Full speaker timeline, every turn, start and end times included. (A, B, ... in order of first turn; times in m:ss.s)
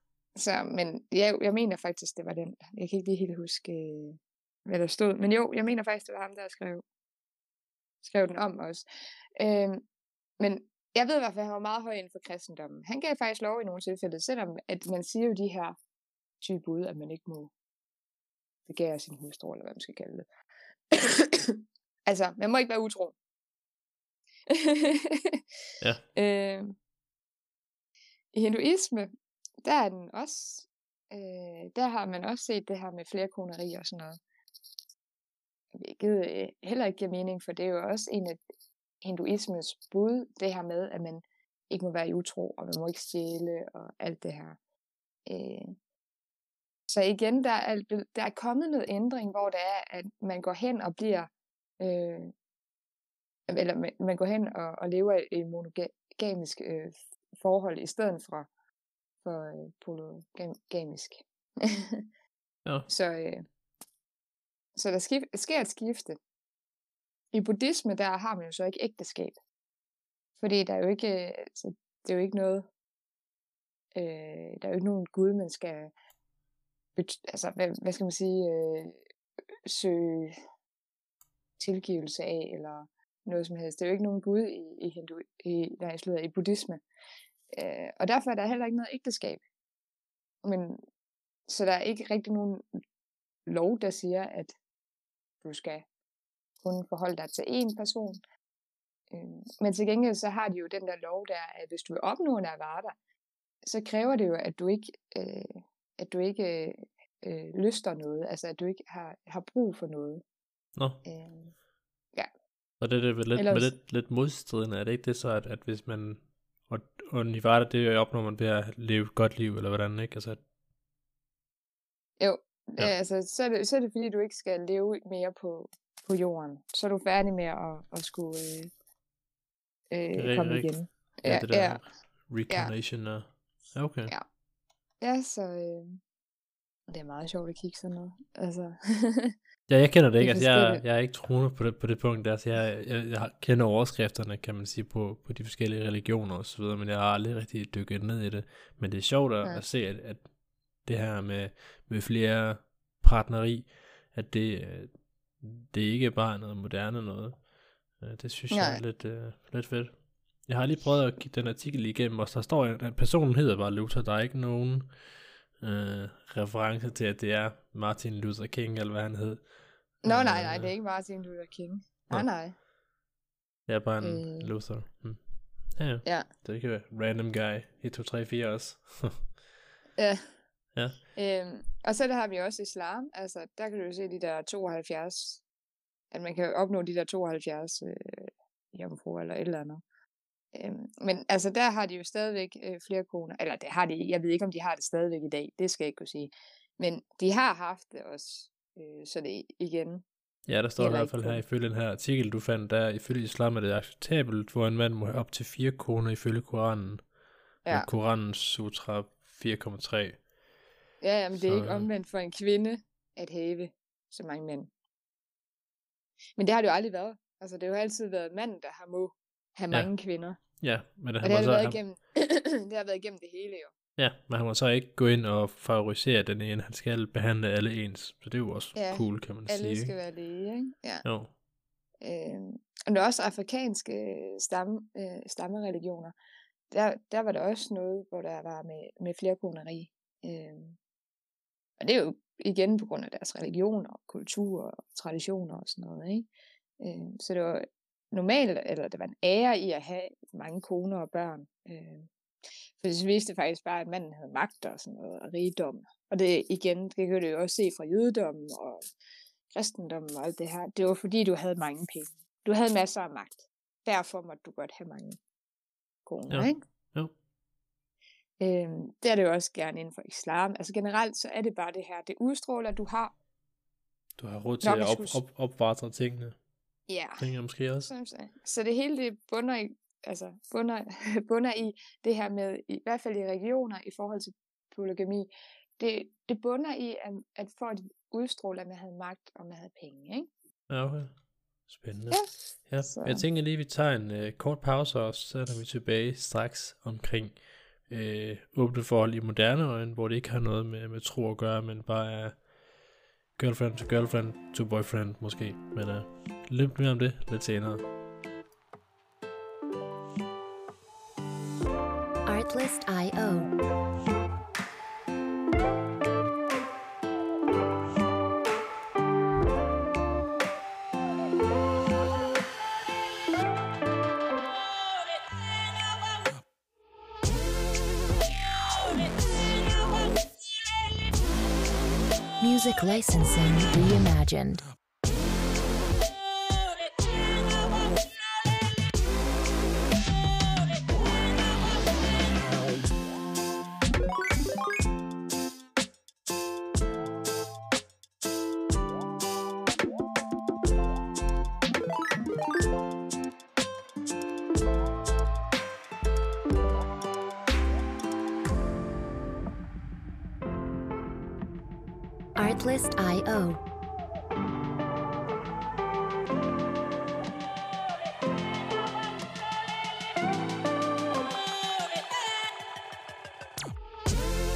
0:00.4-0:06.8 A
0:08.0-0:08.9 A
0:09.4-0:09.9 A
0:10.4-0:15.8 A
0:16.4-0:17.5 A
0:18.7-0:20.3 A
0:20.9-0:23.2 A
0:24.5-0:25.4 A
0:26.2-0:26.8 A
0:28.3-0:29.1 A
0:29.6-0:34.2 A
0:35.7-0:38.4 A
0:39.0-0:44.6 A
0:45.3-0:45.7 A
0:46.9-0:52.3 A
0:53.5-0:58.5 A
0:59.2-1:02.0 A
1:02.9-1:03.5 A
1:04.8-1:06.2 A
1:07.3-1:09.4 A
1:10.4-1:12.7 A
1:14.0-1:15.9 A
1:17.0-1:19.0 A
1:19.7-1:20.4 A
1:21.6-1:26.8 A
1:27.5-1:29.4 A
1:30.4-1:30.8 A
1:31.5-1:32.6 A
1:33.5-1:34.6 A
1:35.4-1:35.8 A
1:36.6-1:38.2 A
1:39.1-1:43.0 A
1:43.6-1:50.2 A
1:50.8-1:51.0 B
1:51.0-1:51.5 A
1:52.8-2:00.4 B
1:53.4-1:53.7 A
2:02.2-2:08.7 A
2:09.9-2:11.8 A
2:10.1-2:14.1 B
2:12.5-2:12.7 A
2:15.0-2:16.0 A
2:16.9-2:19.4 A
2:19.7-2:30.3 B
2:20.2-2:20.8 A
2:30.8-2:37.4 B
2:38.0-2:45.0 B
2:38.5-2:38.8 A
2:45.6-2:50.7 B
2:50.0-2:52.6 A
2:53.7-2:59.4 B
2:54.0-2:54.5 A
3:00.0-3:00.3 A
3:01.1-3:05.4 A
3:06.1-3:09.8 A
3:10.5-3:20.0 A
3:20.5-3:27.1 B
3:20.8-3:21.4 A
3:27.7-3:30.3 B
3:31.0-3:34.7 A
3:31.4-3:31.9 B
3:36.4-3:40.4 A
3:40.6-3:41.8 B
3:41.2-3:43.7 A
3:44.0-3:50.0 B
3:48.7-3:51.1 A
3:51.0-3:51.3 B
3:52.0-3:56.2 A
3:56.7-4:00.8 A
4:01.8-4:06.3 A
4:06.8-4:12.1 A
4:12.8-4:18.8 A
4:19.5-4:25.2 A
4:26.1-4:26.6 A
4:26.3-4:27.1 B
4:28.4-4:33.1 A
4:34.2-4:36.4 B
4:34.6-4:35.2 A
4:36.9-4:37.3 A
4:37.2-4:37.9 B
4:37.9-4:50.3 A
4:50.7-4:51.2 B
4:51.7-5:02.4 B
4:52.1-4:53.2 A
5:03.4-5:07.8 B
5:12.3-5:13.5 C
5:32.4-5:34.7 C
6:02.4-6:03.6 C